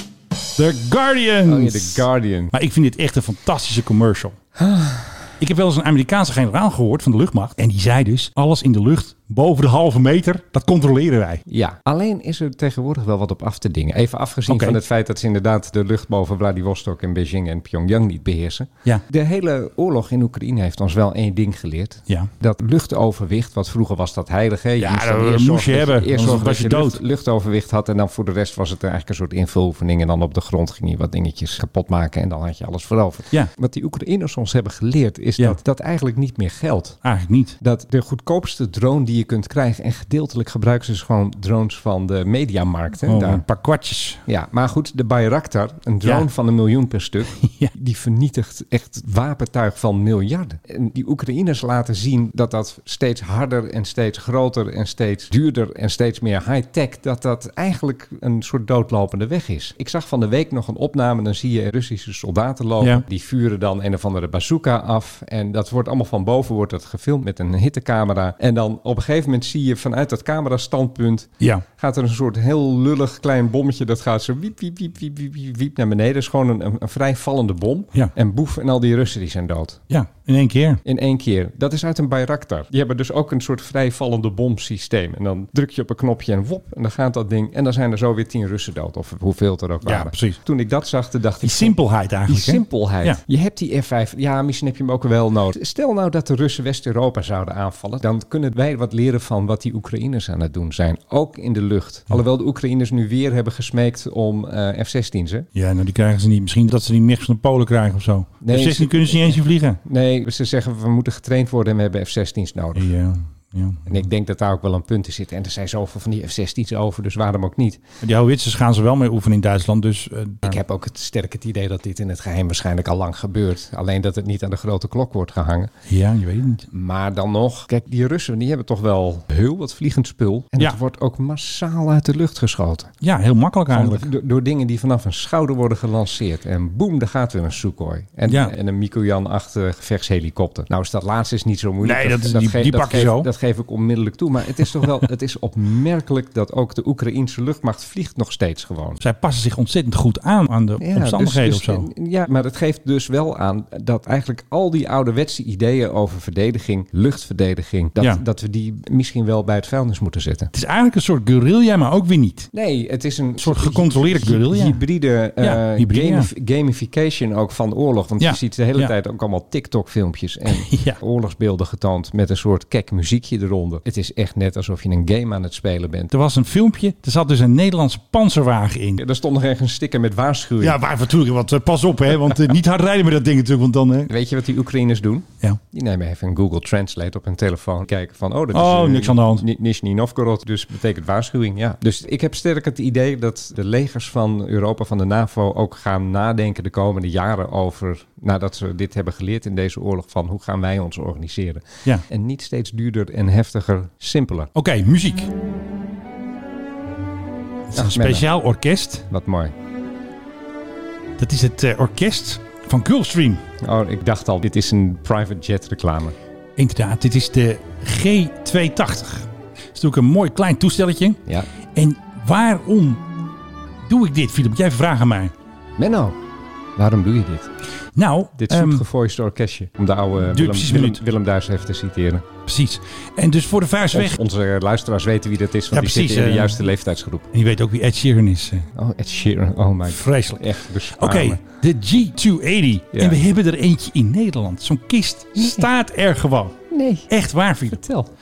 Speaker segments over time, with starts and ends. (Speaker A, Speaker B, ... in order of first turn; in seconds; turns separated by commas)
Speaker A: 0.6-4.4, Speaker B: 1.4-2.5, Speaker B: 4.6-5.3, Speaker A: 5.4-11.4, Speaker B: 11.5-37.0, Speaker A: 14.5-14.8, Speaker A: 24.8-27.0, Speaker A: 37.0-37.6, Speaker B: 37.6-43.4, Speaker A: 43.0-44.2, Speaker B: 44.3-79.8, Speaker A: 47.4-47.7, Speaker A: 79.9-80.8, Speaker B: 80.8-105.5, Speaker A: 89.8-90.4, Speaker A: 91.4-93.2, Speaker A: 105.5-109.8, Speaker B: 108.4-112.9, Speaker A: 112.8-114.0, Speaker B: 113.9-117.8, Speaker A: 118.0-120.6, Speaker B: 120.4-125.7, Speaker A: 125.9-126.7, Speaker B: 126.7-132.9, Speaker A: 133.0-134.1, Speaker B: 133.7-149.0, Speaker A: 138.3-138.5, Speaker A: 141.8-143.3, Speaker A: 149.0-151.9, Speaker B: 150.8-160.5, Speaker A: 160.5-162.5, Speaker B: 162.5-176.1, Speaker A: 163.4-164.8, Speaker A: 165.4-166.3, Speaker A: 168.2-168.9, Speaker A: 170.5-171.0, Speaker A: 176.1-179.0, Speaker B: 179.0-180.8, Speaker A: 180.6-184.1, Speaker B: 184.1-204.5, Speaker A: 188.5-189.5, Speaker A: 204.6-205.3, Speaker A: 207.7-209.1, Speaker B: 207.7-208.3, Speaker B: 209.1-209.5, Speaker A: 211.2-213.4, Speaker B: 213.6-216.2, Speaker A: 216.6-221.2, Speaker A: 221.7-223.1, Speaker A: 223.8-225.3, Speaker B: 225.8-226.2, Speaker B: 226.8-227.5, Speaker A: 228.0-228.9, Speaker B: 228.4-232.3, Speaker A: 230.3-231.0, Speaker A: 232.5-234.2, Speaker B: 233.9-237.2, Speaker A: 235.7-236.6, Speaker A: 237.3-238.7, Speaker B: 238.8-241.4, Speaker A: 239.9-246.6, Speaker B: 242.9-243.2, Speaker B: 245.4-245.7, Speaker B: 246.7-247.1, Speaker A: 247.1-247.8, Speaker B: 247.7-248.1